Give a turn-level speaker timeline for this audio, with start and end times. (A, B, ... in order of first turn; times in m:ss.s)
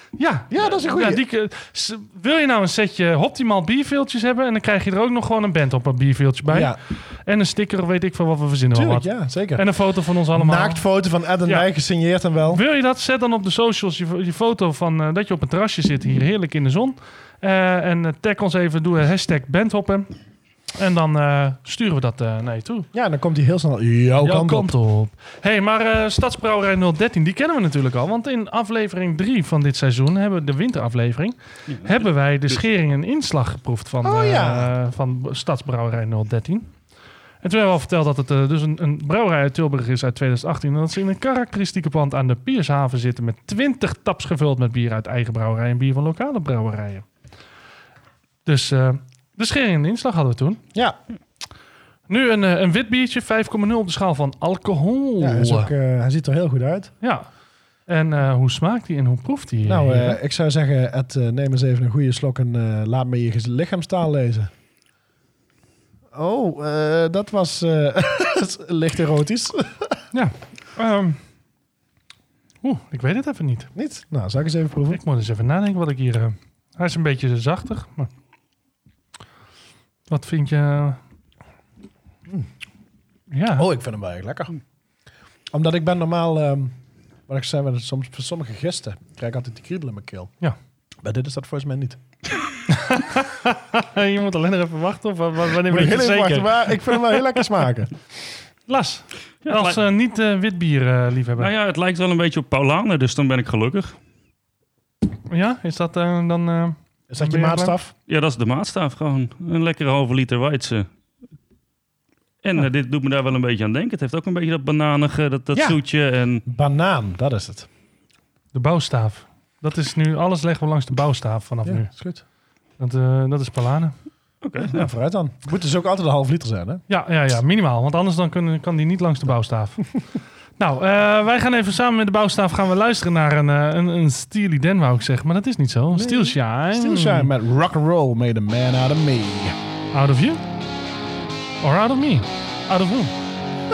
0:00.2-0:10.8 A
0:00.5-0:01.2 B
0:06.5-0:06.8 B
0:08.7-0:09.6 B
0:10.3-0:12.6 B
0:12.5-0:20.1 A
0:20.8-0:22.9 A
0:22.9-0:24.7 B
0:24.2-0:36.7 A
0:34.0-0:34.7 B
0:37.4-0:47.1 A
0:48.4-0:50.6 A
0:52.1-0:55.7 A
0:55.2-0:56.9 B
0:57.0-0:57.3 A
0:57.9-1:00.2 A
0:59.7-1:04.5 B
1:06.1-1:10.0 B
1:10.1-1:11.2 A
1:12.6-1:13.7 A
1:13.8-1:15.0 B
1:14.9-1:18.1 A
1:20.1-1:21.0 A
1:23.3-1:23.7 A
1:23.6-1:24.5 B
1:25.5-1:26.7 B
1:27.3-1:30.3 B
1:31.0-1:32.0 B
1:32.7-1:37.4 A
1:35.6-1:38.0 B
1:38.7-1:41.5 A
1:39.4-1:39.8 C
1:41.4-1:44.0 C
1:45.3-1:47.8 A
1:47.1-1:47.9 B
1:48.1-1:50.9 C
1:52.4-1:56.4 C
1:55.5-1:55.8 B
1:56.4-1:57.7 B
1:58.5-2:01.9 A
2:01.6-2:02.2 B
2:02.8-2:03.9 A
2:04.4-2:04.9 C
2:04.6-2:06.8 B
2:06.9-2:09.8 A
2:10.6-2:17.3 A
2:15.9-2:19.6 B
2:19.9-2:20.4 A
2:21.6-2:23.1 A